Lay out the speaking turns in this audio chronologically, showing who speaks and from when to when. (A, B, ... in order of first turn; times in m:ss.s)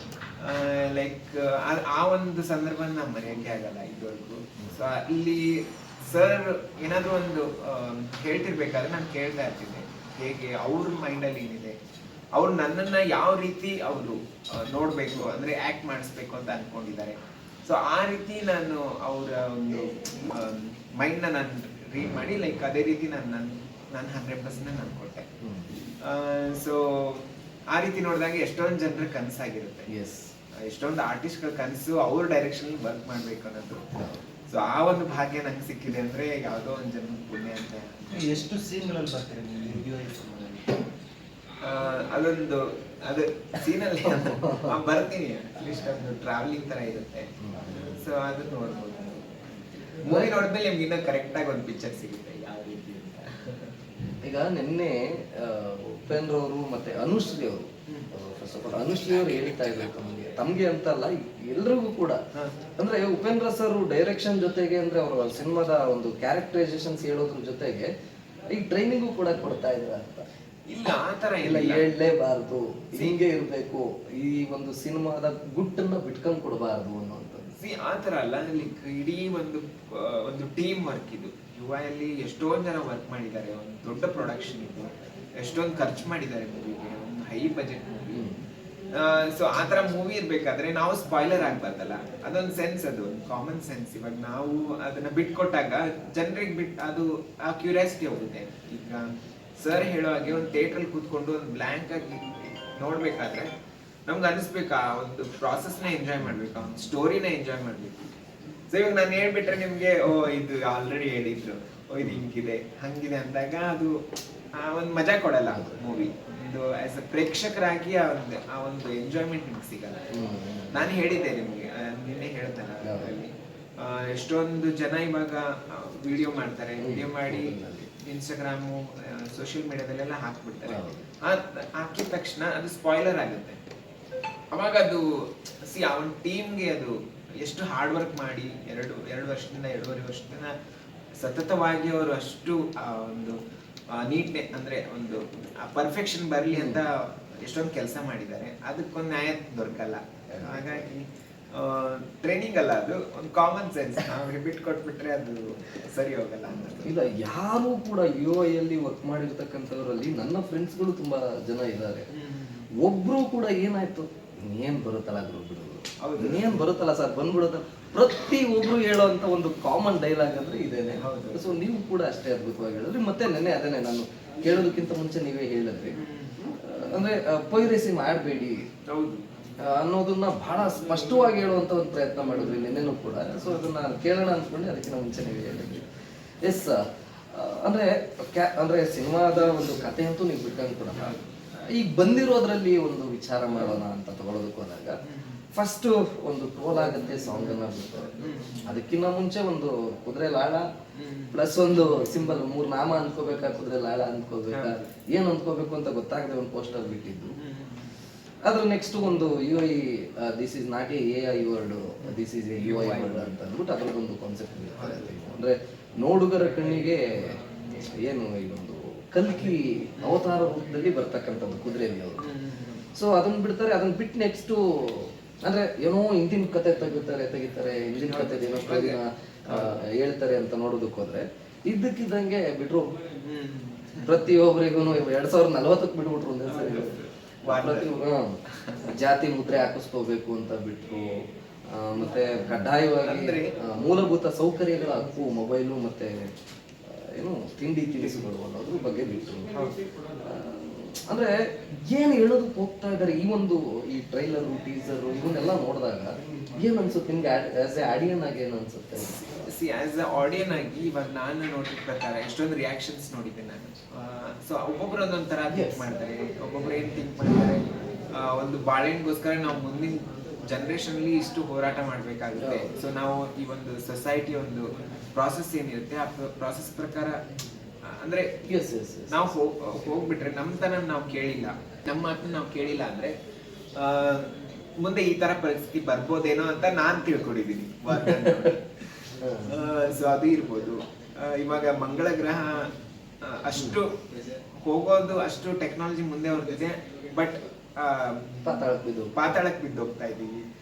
0:00.4-0:11.8 A
0:12.4-0:25.3 A
0:25.4-0:25.7 B
0:26.0-0:29.9 A
0:29.9-0:30.3 B
0:30.5-0:38.8 A
0:34.0-0:34.2 B
0:38.4-0:40.3 C
0:40.1-0:40.7 A
0:41.6-0:53.9 A
0:44.2-0:44.7 B
0:47.4-0:48.0 B
0:50.1-0:50.3 B
0:54.2-1:02.2 B
1:02.8-1:07.9 B
1:08.5-1:10.3 B
1:10.7-1:11.9 A
1:11.4-1:17.5 B
1:17.5-1:28.4 A
1:28.1-1:28.4 B
1:28.9-1:43.5 A
1:44.1-1:48.1 A
1:48.7-1:54.0 A
1:54.6-2:00.1 A
1:55.5-1:55.8 B
2:00.1-2:00.8 B
2:00.7-2:13.6 A
2:02.8-2:03.1 B
2:06.8-2:07.9 B
2:10.7-2:11.1 B
2:14.5-2:20.5 A
2:21.2-2:23.4 A
2:23.9-2:37.1 A
2:26.5-2:26.8 B
2:30.3-2:30.7 B
2:36.8-2:42.1 B
2:42.1-2:42.7 A
2:42.8-2:56.0 B
2:46.0-2:46.7 A
2:50.9-2:51.6 A
2:55.9-2:56.6 A
2:56.6-2:58.7 B
2:58.9-2:59.6 A
2:59.6-3:05.9 B
3:06.4-3:15.0 B
3:15.0-3:15.4 A
3:15.5-3:20.6 B
3:16.7-3:18.8 A
3:20.9-3:22.6 A
3:21.3-3:27.4 B
3:24.5-3:24.9 A
3:27.4-3:28.0 A
3:28.4-3:42.3 B
3:32.0-3:33.4 A
3:34.7-3:35.4 A
3:36.4-3:37.9 A
3:39.2-3:40.4 A
3:42.2-3:42.9 A
3:42.9-3:53.0 B
3:48.0-3:49.8 A
3:53.2-3:54.3 A
3:54.1-3:57.0 B
3:56.5-3:58.9 A
3:57.5-4:06.3 B
4:03.0-4:03.8 A
4:06.8-4:09.6 B
4:09.5-4:09.9 A
4:10.2-4:19.3 B
4:19.2-4:37.2 A
4:25.5-4:25.9 B
4:32.4-4:32.7 B
4:37.9-4:38.4 A
4:38.4-4:39.3 B
4:39.1-4:43.2 A
4:43.7-5:00.4 A
4:47.9-4:48.6 B
4:49.1-4:49.6 B
4:58.4-4:59.3 B